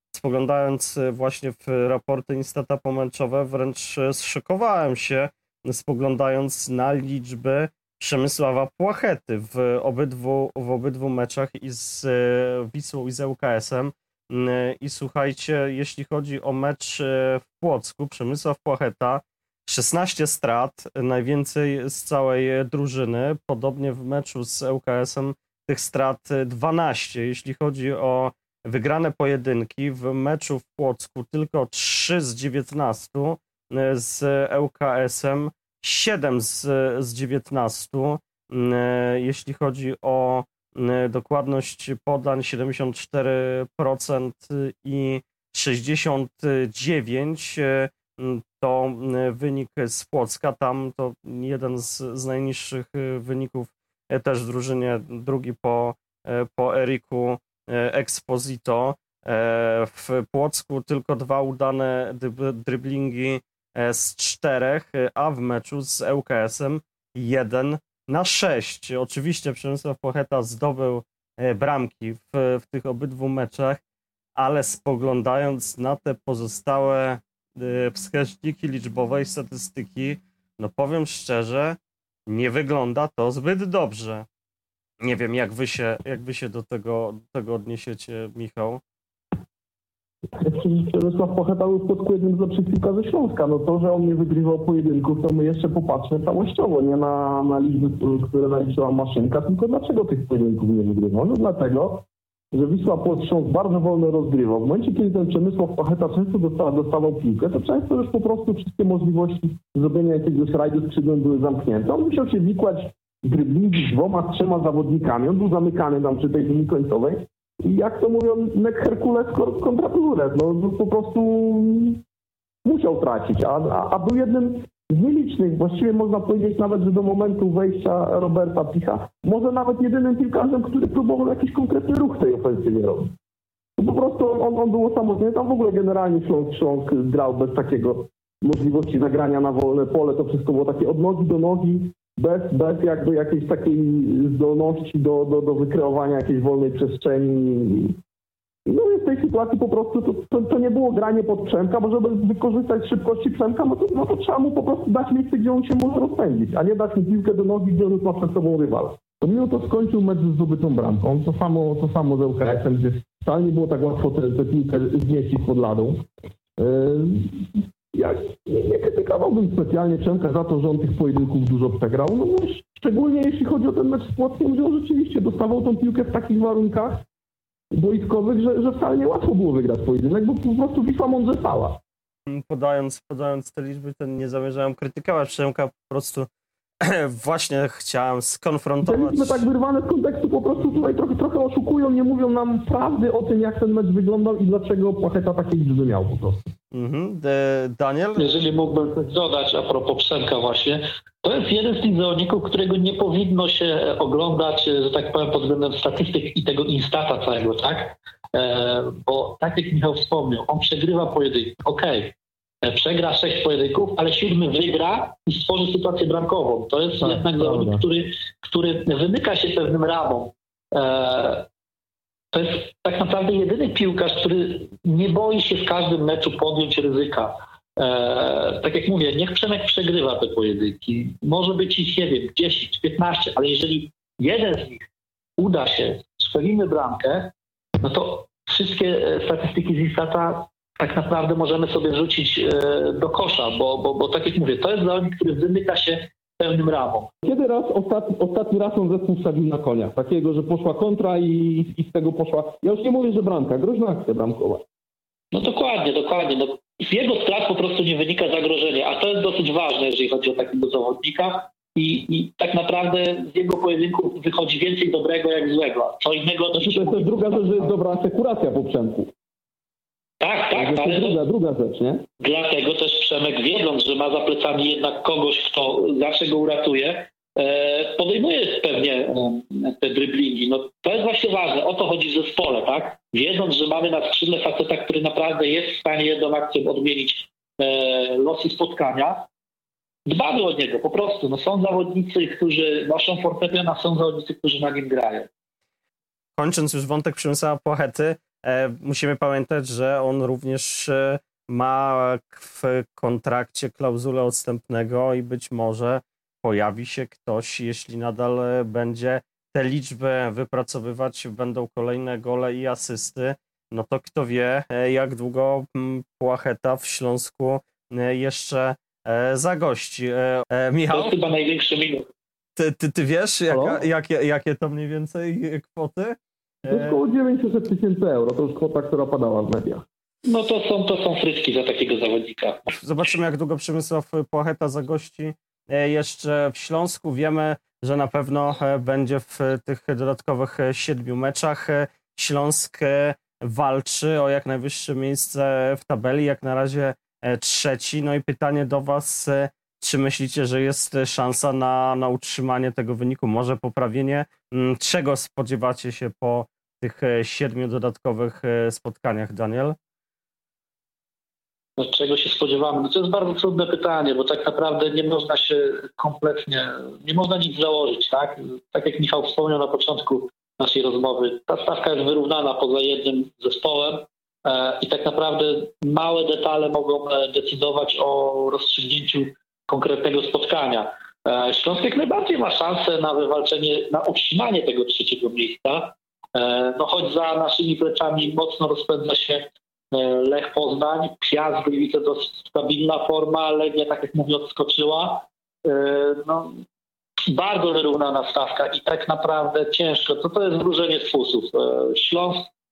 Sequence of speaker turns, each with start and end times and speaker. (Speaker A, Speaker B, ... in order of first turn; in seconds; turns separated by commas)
Speaker A: 0.1-73.8, Speaker A: 74.4-84.3, Speaker A: 85.0-88.8, Speaker B: 90.4-122.0, Speaker B: 122.7-133.1, Speaker B: 133.8-148.0, Speaker B: 148.7-166.1, Speaker B: 166.6-177.1, Speaker B: 177.7-181.8, Speaker A: 182.3-186.3, Speaker A: 186.8-189.5, Speaker B: 188.8-196.5, Speaker A: 196.7-198.4, Speaker C: 198.2-221.5, Speaker B: 217.0-217.8, Speaker C: 222.3-234.9, Speaker C: 235.4-247.1, Speaker B: 247.2-254.6, Speaker C: 255.3-267.7, Speaker B: 266.5-269.1, Speaker C: 270.2-271.2, Speaker B: 270.5-272.1, Speaker C: 272.2-289.3, Speaker C: 290.1-295.3, Speaker A: 296.4-321.1, Speaker C: 320.9-322.1, Speaker A: 322.6-327.0, Speaker B: 323.5-323.8, Speaker B: 326.7-329.9, Speaker C: 330.2-332.8, Speaker A: 332.7-359.8, Speaker C: 361.8-396.6, Speaker C: 397.3-402.5